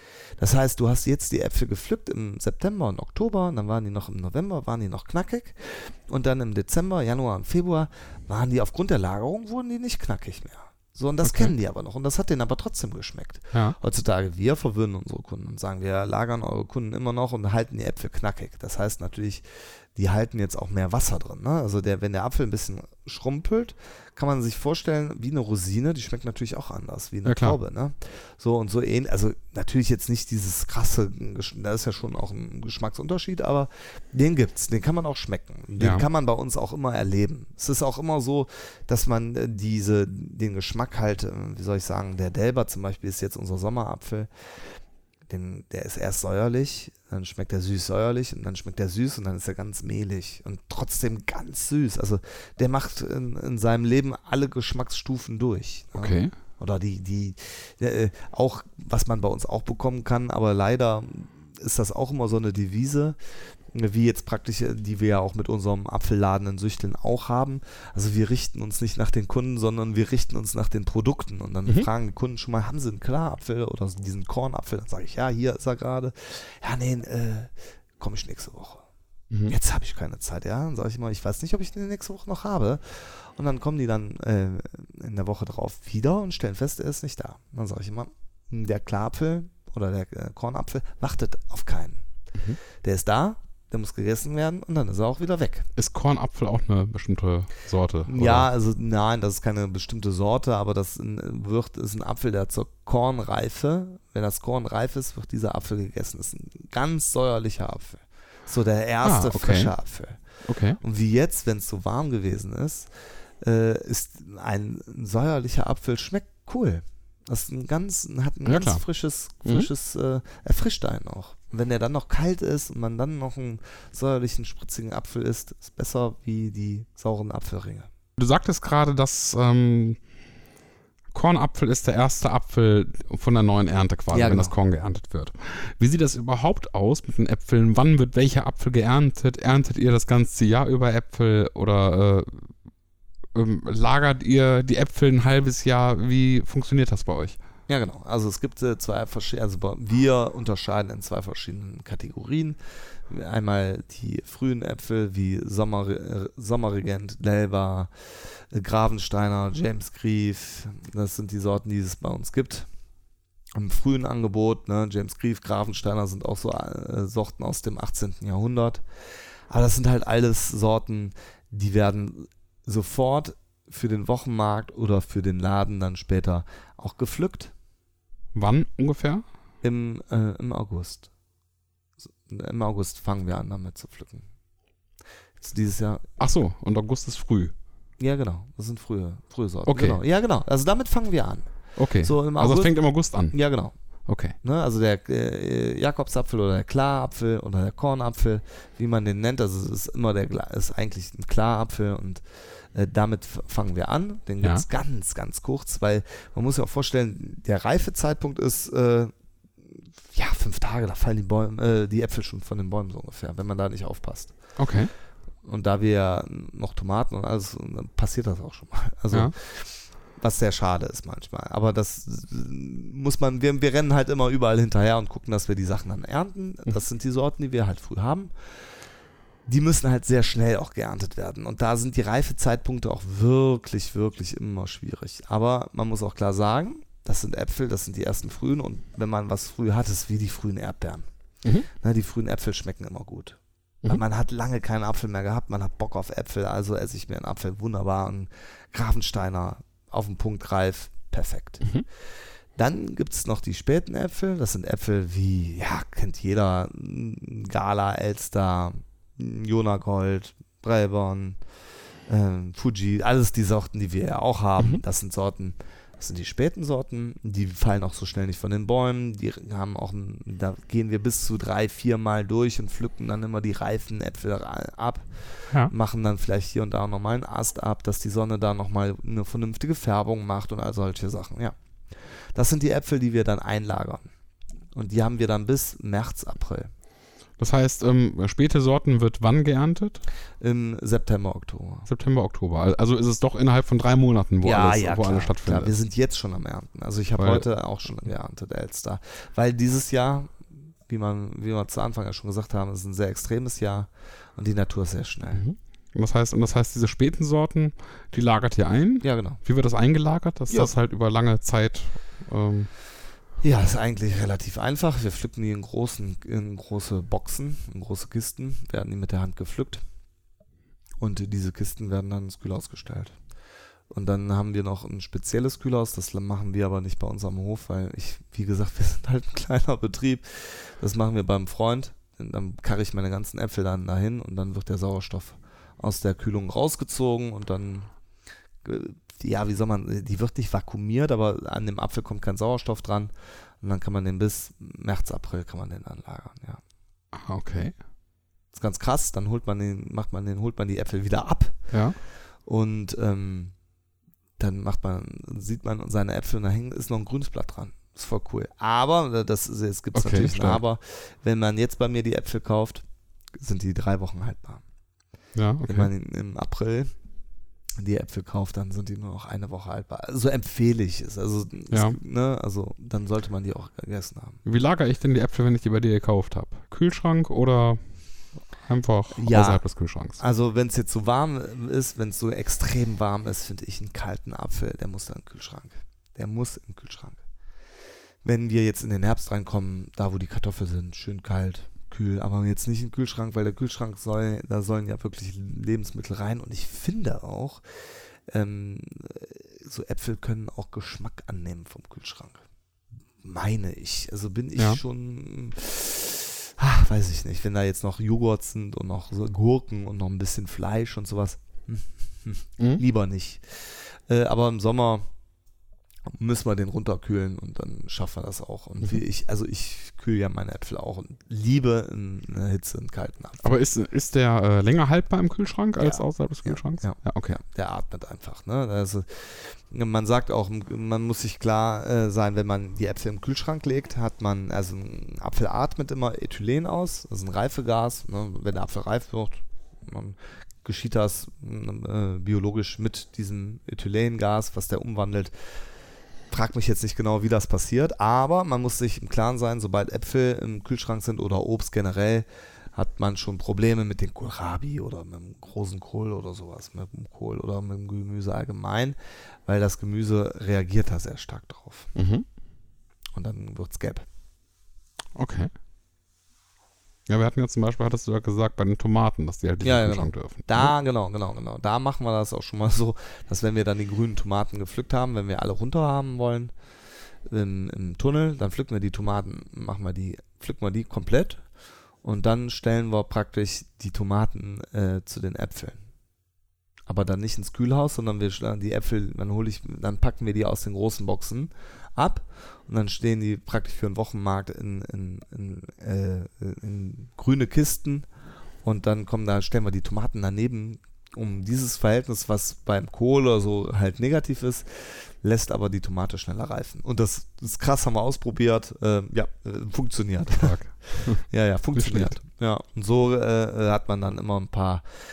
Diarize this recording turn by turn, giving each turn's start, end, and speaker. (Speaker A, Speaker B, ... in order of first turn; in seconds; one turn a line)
Speaker A: 0.4-19.4
Speaker B: 11.2-11.5
Speaker A: 19.9-44.3
Speaker B: 27.3-27.6
Speaker B: 35.8-36.0
Speaker A: 45.3-63.2
Speaker B: 56.0-56.3
Speaker A: 63.7-78.9
Speaker A: 79.5-92.0
Speaker A: 92.8-95.7
Speaker B: 95.8-98.5
Speaker A: 98.1-110.2
Speaker B: 109.0-109.7
Speaker B: 110.5-110.8
Speaker A: 110.8-112.9
Speaker A: 113.4-127.9
Speaker B: 118.5-118.8
Speaker B: 128.2-130.0
Speaker B: 131.1-142.5
Speaker A: 134.1-134.6
Speaker B: 143.3-147.4
Speaker A: 147.7-152.6
Speaker A: 153.1-162.7
Speaker A: 163.6-168.8
Speaker A: 169.5-177.5
Speaker B: 178.3-179.2
Speaker A: 179.6-181.1
Speaker A: 182.3-184.3
Speaker A: 185.4-186.1
Speaker B: 186.2-187.5
Speaker A: 188.0-193.7
Speaker B: 189.7-190.0
Speaker B: 191.8-193.4
Speaker B: 194.1-194.3
Speaker A: 194.4-209.1
Speaker A: 209.7-214.3
Speaker B: 214.6-214.9
Speaker A: 215.4-228.3
Speaker A: 229.5-241.0
Speaker A: 241.8-251.7
Speaker A: 252.6-261.4
Speaker A: 262.1-284.1
Speaker A: 284.7-286.7
Speaker B: 287.4-290.0
Speaker A: 290.4-291.9
Speaker B: 291.9-295.7
Speaker A: 294.4-305.4
Speaker B: 297.2-297.4
Speaker B: 305.3-312.7
Speaker A: 309.0-309.4
Speaker A: 313.4-319.8
Speaker A: 321.0-323.2
Speaker A: 323.9-337.9
Speaker A: 338.6-346.6
Speaker B: 347.1-347.8
Speaker A: 348.5-351.7
Speaker B: 351.7-352.0
Speaker A: 352.4-353.5
Speaker A: 354.4-362.8
Speaker B: 360.0-360.6
Speaker A: 363.4-364.6
Speaker B: 365.4-365.9
Speaker A: 365.6-366.9
Speaker A: 367.8-374.4
Speaker B: 371.7-372.0
Speaker B: 374.4-377.8
Speaker B: 378.6-380.2
Speaker A: 379.1-379.6
Speaker A: 380.2-387.2
Speaker A: 388.2-397.6
Speaker A: 398.3-402.4
Speaker A: 403.2-415.1
Speaker A: 416.1-423.5
Speaker B: 423.4-427.4
Speaker A: 425.8-445.3
Speaker A: 446.3-461.9
Speaker B: 461.9-462.3
Speaker A: 463.2-464.1
Speaker B: 465.1-465.5
Speaker B: 467.1-470.7
Speaker A: 469.6-476.5
Speaker A: 477.3-481.4
Speaker A: 482.0-485.8
Speaker A: 486.9-498.1
Speaker A: 498.6-514.8
Speaker B: 510.4-512.1